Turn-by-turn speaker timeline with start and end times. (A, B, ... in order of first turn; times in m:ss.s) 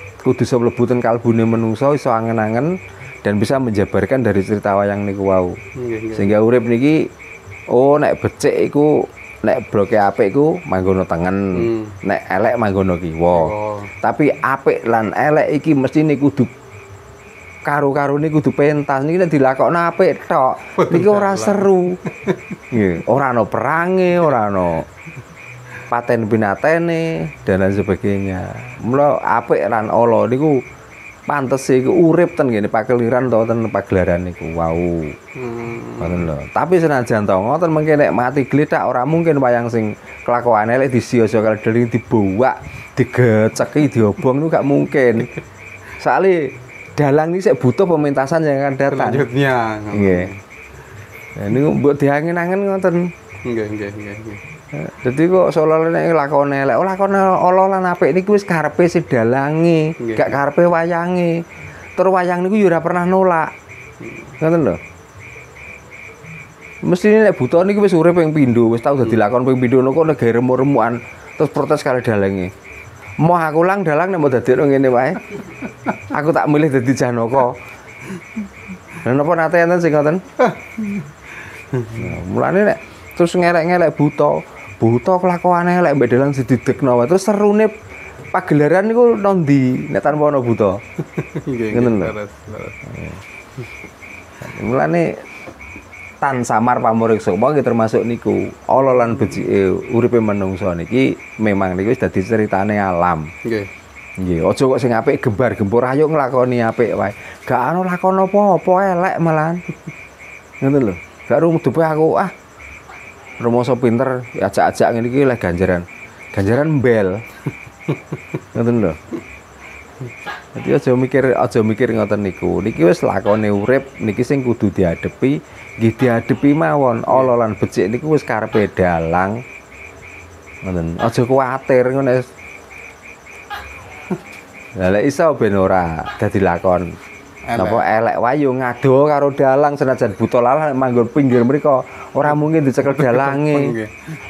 0:00.2-0:05.6 A
0:05.8-0:06.3 B
0:06.1-0:07.1 A
0:07.7-0:16.5 A
0:11.6-0:11.9 B
0:13.3-0:13.9 B
0:17.6-0:22.0 A
0:20.8-0:22.4 B
0:22.7-0:24.9 A
0:25.9-0:30.6 A
0:31.3-0:35.2 A
0:35.4-0:36.3 B
0:36.0-0:45.3 A
0:46.0-0:49.2 A
0:48.9-0:50.4 B
0:49.9-0:50.3 A
0:51.4-0:53.1 A
0:53.4-0:54.4 B
0:54.7-1:01.4 A
1:00.0-1:00.4 B
1:02.0-1:03.5 A
1:04.4-1:04.8 A
1:06.8-1:12.5 A
1:13.2-1:15.2 A
1:16.1-1:17.6 A
1:19.0-1:20.2 A
1:20.5-1:22.1 B
1:21.9-1:27.7 A
1:28.3-1:30.8 A
1:31.2-1:32.8 B
1:31.7-1:32.1 A
1:34.4-1:35.1 A
1:36.2-1:43.3 A
1:39.1-1:39.4 B
1:43.4-1:43.7 B
1:44.2-1:49.6 A
1:50.6-1:52.3 A
1:53.4-1:57.2 A
1:58.5-1:59.0 A
2:00.6-2:09.4 A
2:10.6-2:12.3 A
2:14.8-2:16.9 A
2:17.4-2:17.8 B
2:17.6-2:23.8 A
2:22.8-2:24.1 B